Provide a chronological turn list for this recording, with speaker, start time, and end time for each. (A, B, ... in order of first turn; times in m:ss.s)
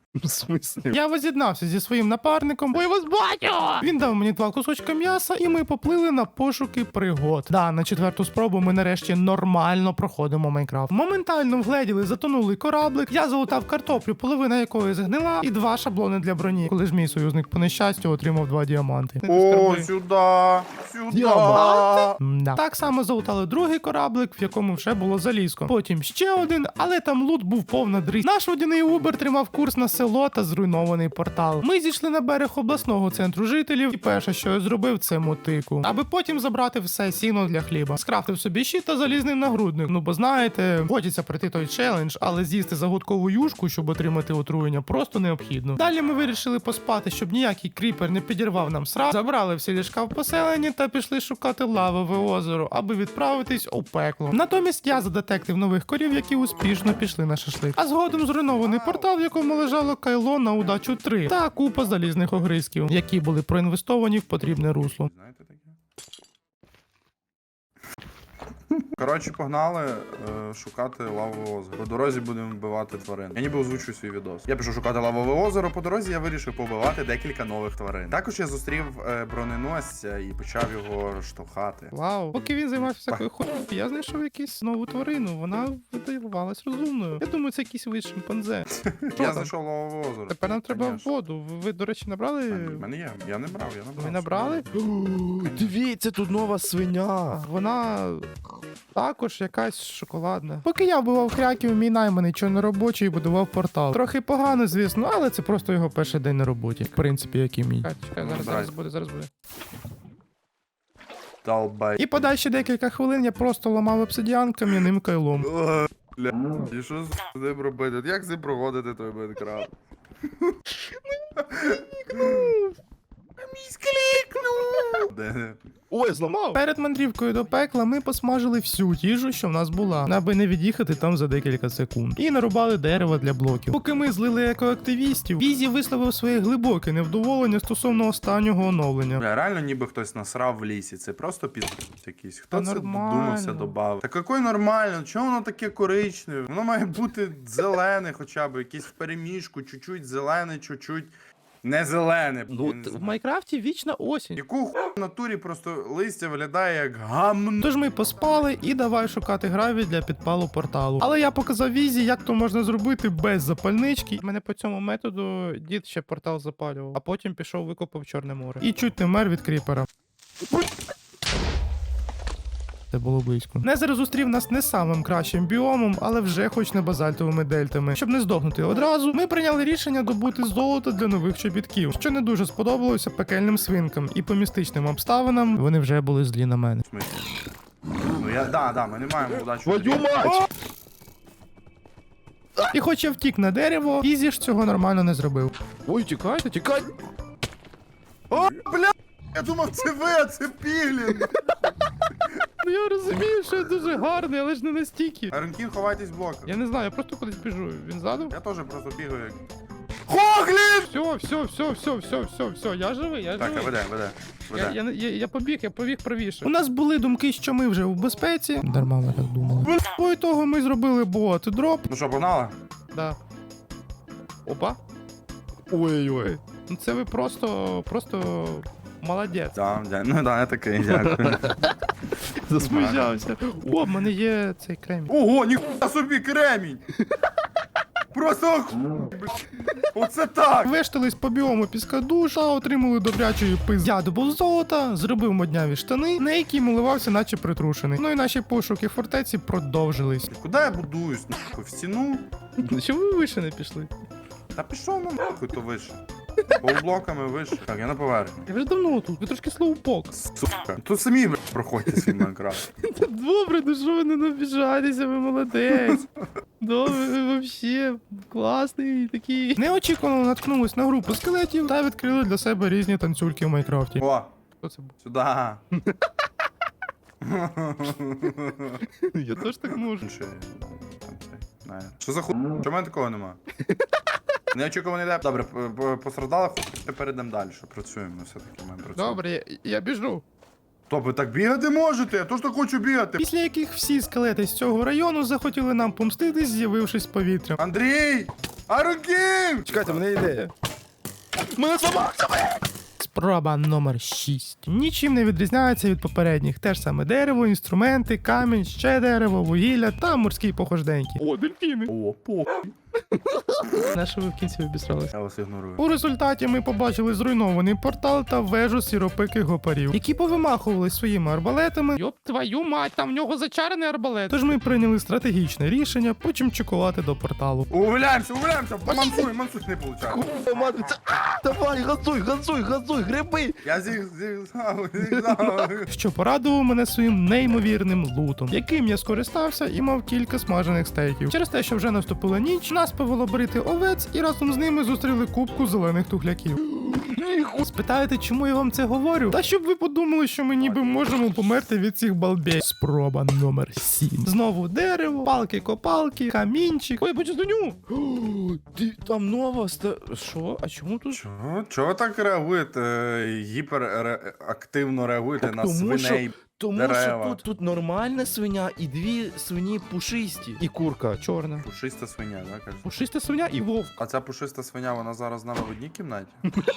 0:00.2-0:01.0 A
0:00.9-0:19.9 B
0:19.3-0:22.2 C
0:21.1-0:22.0 A
0:21.5-1:05.1 B
0:58.5-0:59.2 C
1:04.6-1:05.8 C
1:08.7-1:23.2 C
1:21.9-1:29.5 B
1:28.7-1:31.1 C
1:30.3-1:32.9 B
1:32.5-1:34.7 C
1:34.0-1:34.7 B
1:34.7-1:37.4 A
1:35.4-1:35.7 C
1:37.3-1:38.3 B
1:39.0-1:49.3 B
1:48.2-1:48.7 C
1:51.4-1:52.0 C
1:52.0-1:55.5 B
1:55.4-1:59.7 C
2:01.4-2:02.5 C
2:02.2-2:02.8 B
2:03.4-2:05.1 A
2:05.0-2:05.6 C
2:05.9-2:06.4 A
2:06.3-2:19.2 B
2:19.2-2:31.1 C
2:22.5-2:23.8 B
2:31.6-2:33.1 C
2:32.5-2:33.0 A
2:32.9-2:34.4 B
2:34.4-2:37.6 C
2:37.6-2:49.9 B
2:52.9-3:06.8 B
3:06.8-3:07.2 C
3:08.1-3:10.5 C
3:09.6-3:10.5 A
3:12.7-3:15.5 B
3:15.9-3:16.9 A
3:18.3-3:21.5 C
3:22.6-3:25.3 B
3:25.3-3:26.6 C
3:26.5-3:28.3 B
3:28.3-3:29.4 C
3:30.1-3:30.9 A
3:30.9-3:33.8 B
3:33.4-3:34.8 C
3:34.5-3:41.9 B
3:41.9-3:42.6 C
3:44.5-3:44.8 B
3:45.7-3:46.4 A
3:46.7-3:49.5 B
3:49.5-3:51.6 C
3:50.9-3:51.7 A
3:52.3-3:53.1 A
3:52.6-3:55.1 B
3:52.6-3:53.1 C
3:55.1-3:56.8 C
3:58.1-3:59.3 C
3:59.9-4:00.7 C
4:00.6-4:10.3 B
4:10.3-4:12.3 C
4:12.6-4:13.9 B
4:14.6-4:16.0 C
4:16.6-4:18.5 C
4:18.5-4:20.1 B
4:20.1-4:22.6 C
4:22.8-4:26.1 B
4:25.8-4:26.1 C
4:26.6-4:34.0 B
4:34.0-4:34.3 C
4:34.6-4:34.9 B
4:35.0-4:35.6 C
4:37.2-4:38.8 C
4:38.9-4:39.8 A
4:39.4-4:40.1 B
4:40.0-4:43.4 C
4:44.5-4:49.2 C
4:49.0-4:50.2 B
4:50.9-4:53.2 C
4:53.2-4:57.6 B
4:57.6-5:00.0 C
4:59.7-5:00.5 A
5:01.4-5:02.7 A
5:03.0-5:11.9 B
5:11.9-5:12.7 C
5:13.2-5:13.6 A
5:13.7-5:15.1 B
5:15.1-5:15.8 C
5:15.8-5:27.7 B
5:27.7-5:30.2 C
5:30.0-5:33.6 A
5:33.6-5:35.9 C
5:35.1-5:35.7 A
5:35.9-5:46.6 B
5:46.8-5:47.6 A
5:47.6-5:57.8 B
5:50.6-5:51.1 C
5:57.9-6:00.4 A
6:00.2-6:01.2 B
6:01.1-6:07.4 C
6:05.4-6:11.2 A
6:11.2-6:11.7 B
6:11.6-6:12.9 C
6:12.8-6:14.0 B
6:14.0-6:16.4 C